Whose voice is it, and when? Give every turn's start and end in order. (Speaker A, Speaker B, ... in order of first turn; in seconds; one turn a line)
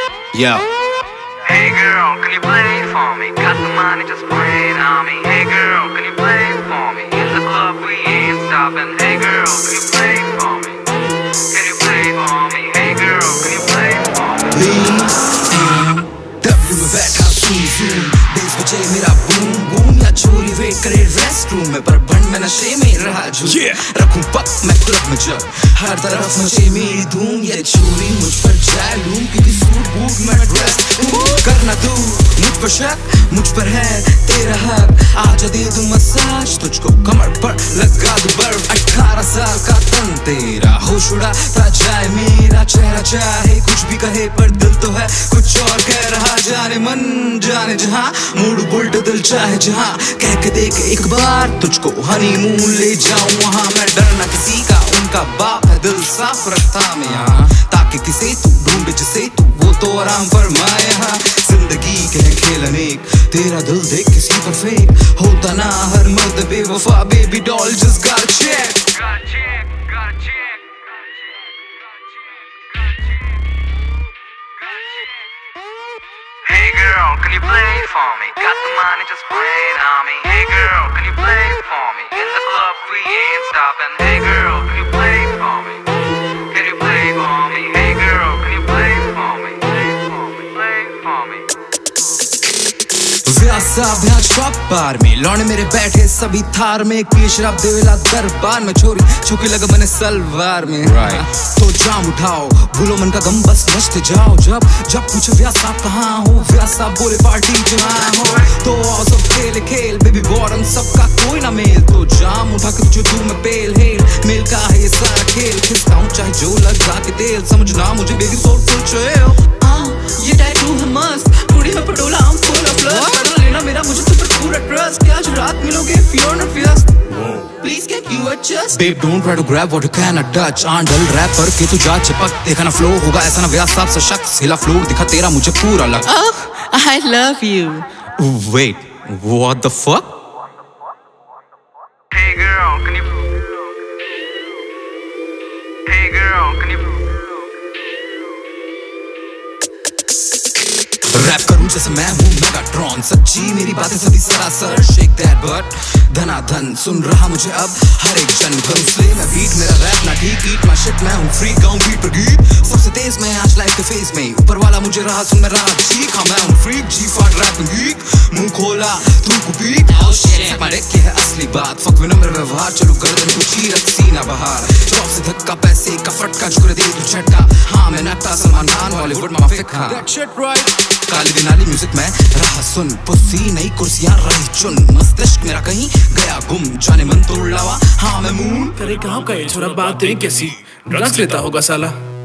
Speaker A: 1.4-14.5
Speaker B: 14.4-69.0
Speaker C: 23.4-23.8
Speaker A: 69.0-71.0
Speaker A: 74.7-75.2
Speaker A: 76.4-85.9
Speaker A: 86.5-91.5
Speaker B: 93.2-119.7
Speaker A: 119.7-121.2
Speaker B: 120.7-126.9
Speaker A: 122.8-123.3
Speaker A: 127.5-128.6
Speaker B: 128.6-136.1
Speaker A: 136.1-137.8
Speaker B: 138.2-140.1
Speaker A: 142.1-143.2
Speaker A: 145.9-147.0
Speaker B: 151.1-180.1
Speaker A: 170.1-170.4
Speaker C: 180.1-180.7
Speaker B: 181.1-188.8
Speaker C: 188.8-191.9